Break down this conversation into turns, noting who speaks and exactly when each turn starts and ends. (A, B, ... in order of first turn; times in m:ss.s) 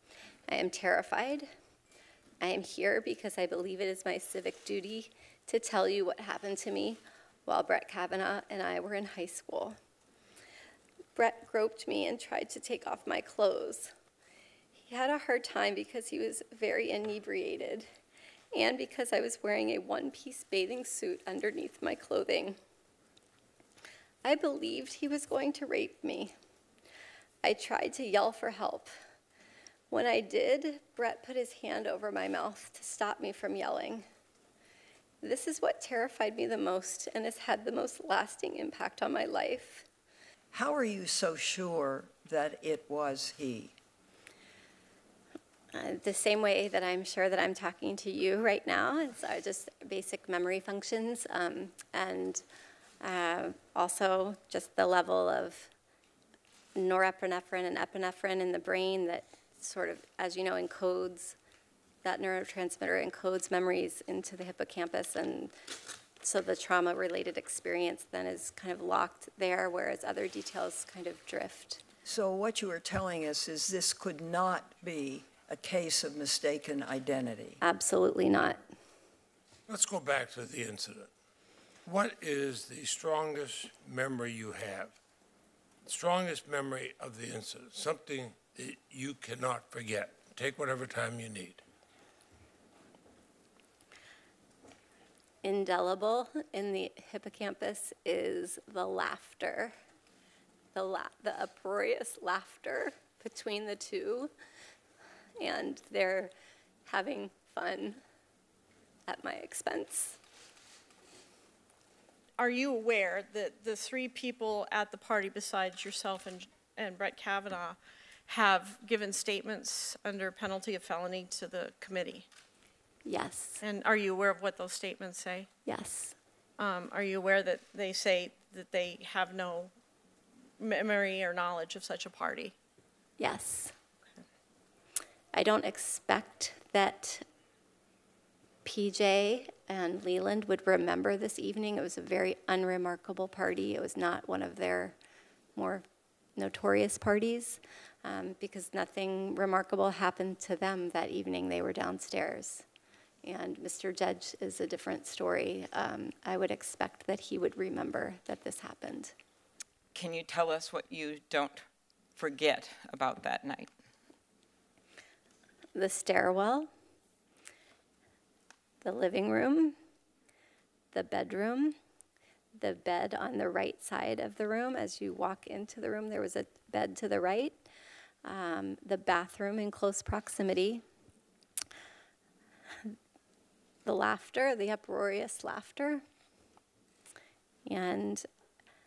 0:00.5-0:01.5 A
0:02.4-0:09.8 A
0:11.2-0:13.9 A
0:14.8-0:17.9 A
0:18.5-0:22.6 A
0:24.2-0:26.3 A
0:27.4-0:28.9 A
0:29.9-0:34.0 A
0:35.2-0:39.9 A
0:40.5-0:43.8 B
0:45.7-0:52.4 A
0:53.0-0:55.7 A
0:56.8-1:01.4 A
1:02.0-1:05.5 A
1:06.2-1:11.8 A
1:12.0-1:17.6 B
1:17.6-1:18.6 A
1:19.7-1:21.1 C
1:21.8-1:25.0 C
1:25.9-1:31.6 C
1:35.4-1:39.7 A
1:40.7-1:44.3 A
1:45.4-1:46.3 A
1:46.9-1:48.0 A
1:49.1-1:50.2 A
1:52.4-2:02.3 D
2:03.0-2:03.6 A
2:03.6-2:05.5 D
2:05.7-2:06.2 A
2:06.6-2:09.7 D
2:10.6-2:12.5 D
2:13.2-2:13.8 A
2:15.3-2:17.2 A
2:18.6-2:25.0 A
2:25.6-2:25.8 A
2:26.4-2:32.6 A
2:33.2-2:39.1 A
2:40.0-2:41.6 E
2:42.2-2:43.7 E
2:45.8-2:46.7 A
2:48.8-2:49.8 A
2:50.9-2:51.8 A
2:52.6-2:57.6 A
2:58.2-3:00.8 A
3:03.8-3:06.0 A
3:07.7-3:08.2 A